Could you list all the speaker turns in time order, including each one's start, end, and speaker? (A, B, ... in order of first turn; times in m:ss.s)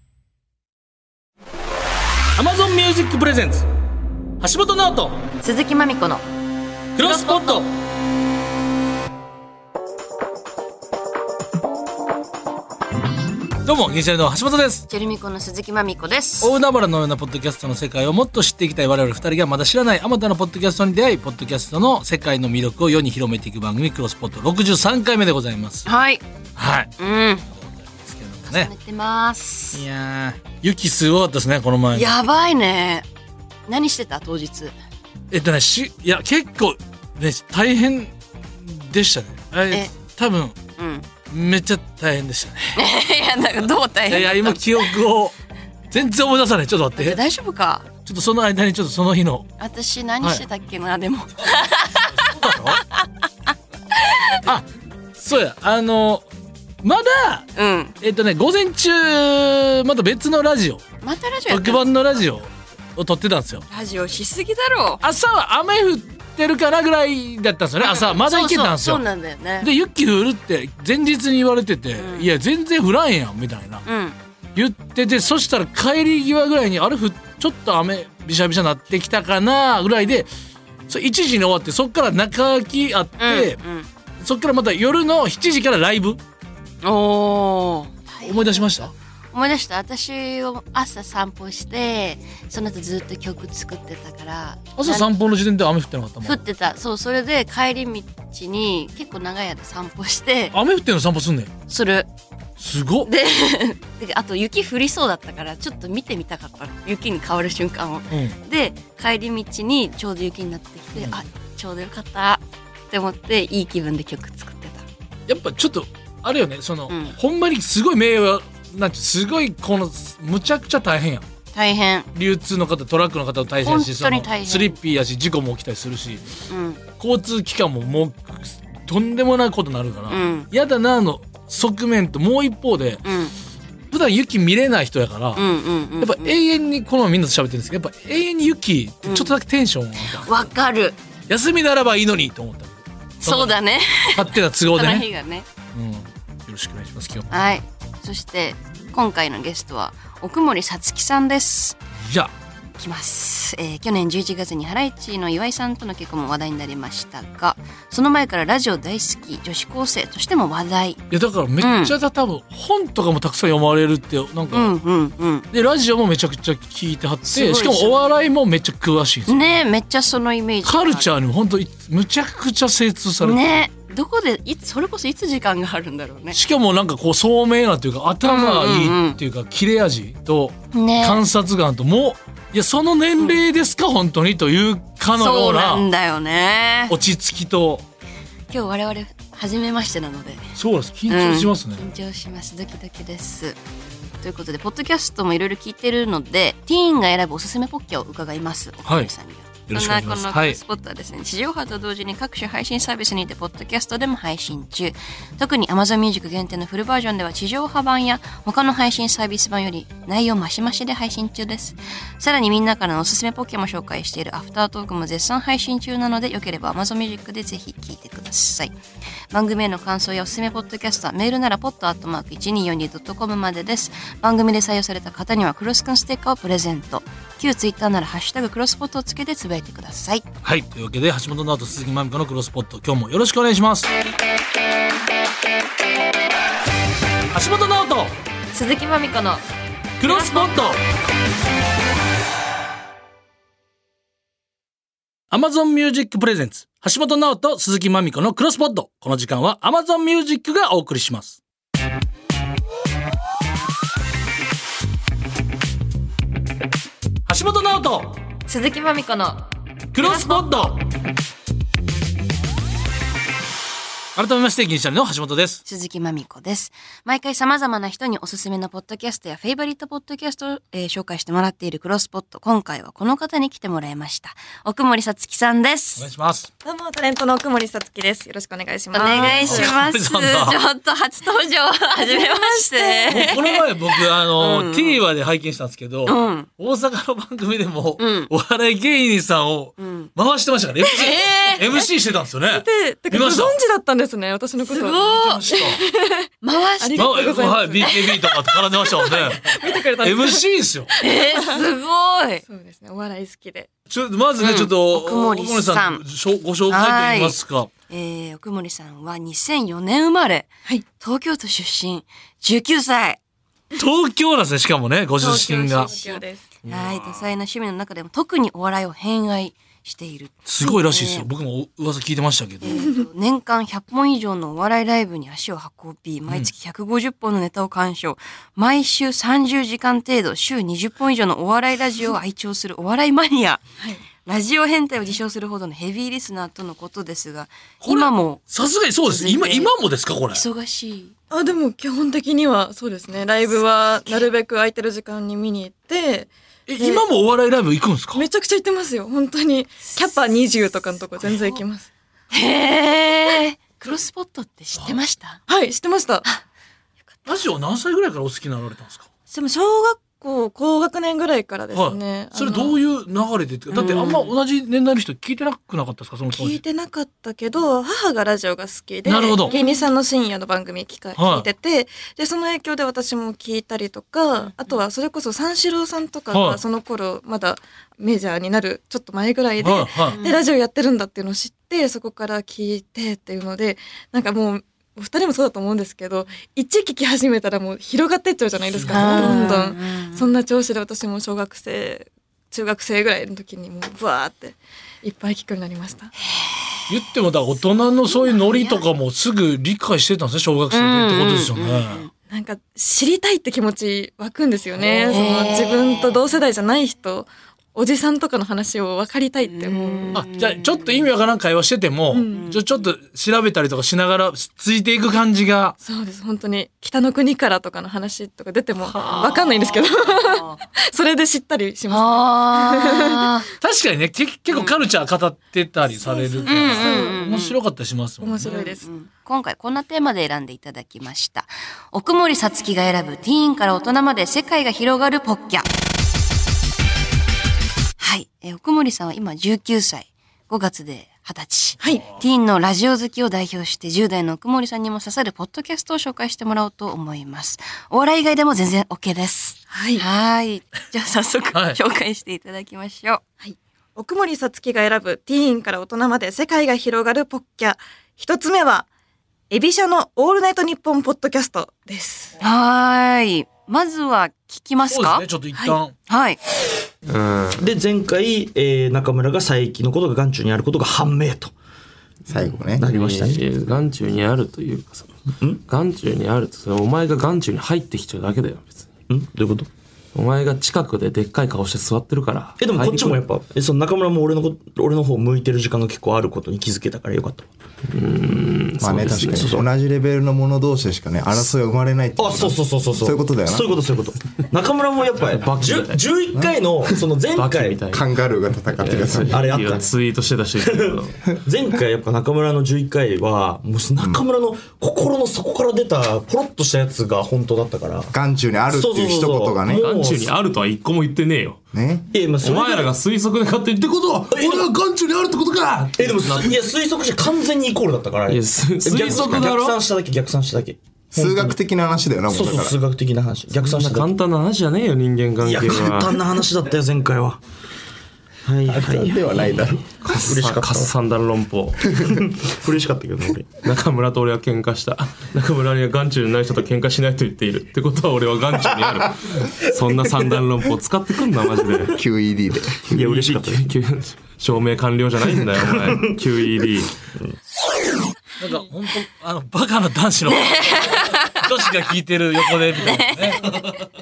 0:02.4-0:03.7 A
0:04.4-0:05.2 A
0:05.4-0:06.2 B
0:07.0-0:07.7 A
0:07.0-0:07.6 B
0:13.6-0:14.8 A
0:14.9-0:16.5 B
0:16.4-0:25.8 A
0:25.8-0:26.2 B
0:26.6-0:28.7 A
0:27.0-0:27.4 B
0:28.5-0:29.8 B
0:29.7-0:32.2 A
0:31.9-0:33.1 B
0:33.7-0:34.7 B
0:35.3-0:40.6 A
0:40.8-0:41.1 B
0:41.3-0:42.7 A
0:42.8-0:44.9 B
0:44.1-0:45.3 A
0:45.9-0:47.2 A
0:47.0-0:47.9 B
0:48.0-0:49.5 A
0:49.6-0:53.0 B
0:50.2-0:50.4 A
0:52.1-0:52.8 A
0:54.1-0:54.4 B
0:55.2-0:56.2 A
0:56.8-0:57.5 A
0:57.5-0:57.9 B
0:58.0-1:00.8 A
1:01.0-1:02.1 B
1:01.5-1:03.6 A
1:03.7-1:05.0 B
1:05.0-1:09.0 A
1:07.8-1:09.7 B
1:09.6-1:13.8 A
1:12.0-1:12.3 B
1:13.8-1:14.2 B
1:14.6-1:20.3 A
1:20.9-1:23.6 A
1:23.2-1:23.9 B
1:24.2-1:26.2 A
1:26.8-1:35.1 B
1:28.2-1:28.9 A
1:34.8-1:36.4 A
1:36.2-1:40.5 B
1:40.5-1:41.5 A
1:41.7-1:42.1 B
1:42.6-1:43.1 A
1:43.0-1:54.8 B
1:50.9-1:51.2 A
1:55.3-2:01.2 A
1:56.9-1:57.1 B
2:01.5-2:02.1 B
2:02.1-2:06.2 A
2:03.6-2:04.8 B
2:06.5-2:06.8 B
2:07.0-2:13.0 A
2:10.1-2:10.5 B
2:13.0-2:13.3 B
2:13.9-2:15.4 A
2:15.4-2:16.4 B
2:16.0-2:20.3 A
2:19.0-2:19.3 B
2:20.0-2:21.0 B
2:21.3-2:25.1 A
2:23.2-2:25.4 B
2:25.7-2:27.3 A
2:27.3-2:31.8 B
2:32.0-2:32.3 A
2:32.8-2:41.0 B
2:41.1-2:44.8 A
2:41.6-2:41.9 B
2:44.5-2:45.4 B
2:45.5-2:49.6 A
2:47.2-2:48.2 B
2:49.3-2:51.1 B
2:50.6-2:53.6 A
2:53.2-2:56.4 B
2:56.3-3:05.9 A
2:58.2-2:59.2 B
3:00.7-3:01.2 B
3:03.2-3:03.4 B
3:05.1-3:06.9 B
3:06.9-3:07.8 A
3:08.5-3:10.4 B
3:10.6-3:11.9 A
3:11.1-3:13.6 B
3:14.2-3:38.8 B
3:18.8-3:19.1 A
3:19.7-3:20.6 A
3:39.3-3:50.2 B
3:50.4-3:53.9 A
3:57.3-3:58.1 A
3:58.5-3:59.4 B
4:00.0-4:00.8 A
4:00.1-4:00.4 B
4:05.3-4:11.4 A
4:17.3-4:18.2 A
4:18.5-4:19.4 B
4:19.9-4:20.8 A
4:20.0-4:20.4 B
4:24.2-4:25.6 A
4:25.6-4:36.1 B
4:36.0-4:36.5 A
4:36.6-4:39.8 C
4:38.9-4:45.0 B
4:39.0-4:40.6 A
4:42.1-4:43.0 C
4:43.0-4:53.6 A
4:46.0-4:46.5 B
4:48.0-4:48.3 B
4:49.8-4:50.1 B
4:50.9-4:51.8 B
4:52.5-4:56.2 C
4:54.6-4:55.4 B
4:54.9-4:55.8 A
4:56.4-4:58.6 B
4:56.8-4:58.0 C
4:57.0-5:00.9 A
4:58.8-5:00.5 C
5:01.0-5:02.4 B
5:02.5-5:03.7 C
5:03.9-5:07.7 A
5:04.4-5:06.0 B
5:06.7-5:13.2 B
5:13.7-5:16.0 A
5:15.2-5:16.5 C
5:15.9-5:21.3 B
5:16.6-5:17.3 A
5:20.5-5:22.8 A
5:22.6-5:38.4 B
5:33.8-5:34.0 C
5:37.8-5:40.4 A
5:39.0-5:39.7 B
5:40.3-5:41.1 B
5:41.3-5:47.0 C
5:43.4-5:44.3 B
5:46.7-5:48.2 A
5:48.1-5:51.9 C
5:49.8-5:51.6 B
5:52.3-5:55.4 B
5:55.5-5:56.2 C
5:57.2-5:59.0 A
5:59.3-6:02.8 C
6:01.7-6:06.6 A
6:03.7-6:04.3 B
6:06.3-6:36.1 C
6:09.0-6:09.5 A
6:09.4-6:09.8 B
6:11.1-6:11.4 A
6:14.4-6:14.8 B
6:16.3-6:16.6 A
6:19.6-6:20.2 A
6:20.0-6:20.5 B
6:28.8-6:29.5 A
6:28.9-6:30.4 B
6:36.3-6:36.8 B
6:36.9-6:42.1 A
6:38.1-6:38.8 B
6:40.7-6:42.1 B
6:42.3-6:50.2 C
6:44.8-6:46.2 B
6:49.4-6:51.0 B
6:50.1-6:55.7 A
6:52.1-6:52.4 C
6:52.3-6:52.6 B
6:55.8-7:02.9 C
6:58.8-6:59.7 A
6:59.2-7:00.6 B
7:01.9-7:03.5 B
7:03.6-7:08.6 A
7:04.5-7:04.8 B
7:06.0-7:07.6 B
7:06.4-7:07.2 C
7:08.2-7:08.8 C
7:08.4-7:15.7 B
7:18.0-7:33.2 B
7:21.8-7:22.1 C
7:29.7-7:30.0 C
7:33.4-7:38.9 C
7:39.5-7:42.3 C
7:42.4-7:45.3 B
7:44.9-7:45.9 A
7:45.5-7:45.8 C
7:46.1-7:46.4 B
7:47.1-7:47.7 D
7:47.6-7:51.5 E
7:52.3-7:52.9 F
7:52.8-7:53.5 E
7:52.9-7:55.1 D
7:55.6-7:58.9 D
7:59.1-7:59.7 E
8:00.1-8:03.2 D
8:02.6-8:07.5 E
8:07.9-8:09.5 D
8:08.8-8:13.8 F
8:09.2-8:09.7 E
8:12.2-8:17.9 E
8:15.2-8:16.1 D
8:16.3-8:16.6 F
8:17.3-8:18.1 D
8:17.9-8:19.2 F
8:18.8-8:21.2 D
8:19.2-8:20.0 E
8:20.6-8:28.1 E
8:28.1-8:29.8 F
8:28.7-8:30.3 E
8:29.8-8:31.6 D
8:31.7-8:32.1 F
8:32.1-8:32.9 E
8:32.4-8:36.6 D
8:34.3-8:34.7 E
8:35.9-8:41.6 E
8:38.3-8:39.8 D
8:41.2-8:42.8 F
8:42.3-8:44.2 E
8:43.5-8:46.2 D
8:45.4-8:47.4 E
8:48.4-8:49.5 E
8:48.7-8:49.9 F
8:48.9-8:51.8 D
8:50.1-8:50.9 E
8:52.0-8:53.6 E
8:53.6-9:01.9 D
8:58.5-8:58.8 E
8:59.9-9:00.4 E
9:01.9-9:03.0 F
9:02.9-9:06.9 D
9:03.0-9:03.8 E
9:05.2-9:07.3 E
9:08.4-9:13.8 A
9:10.3-9:11.4 B
9:12.7-9:13.4 B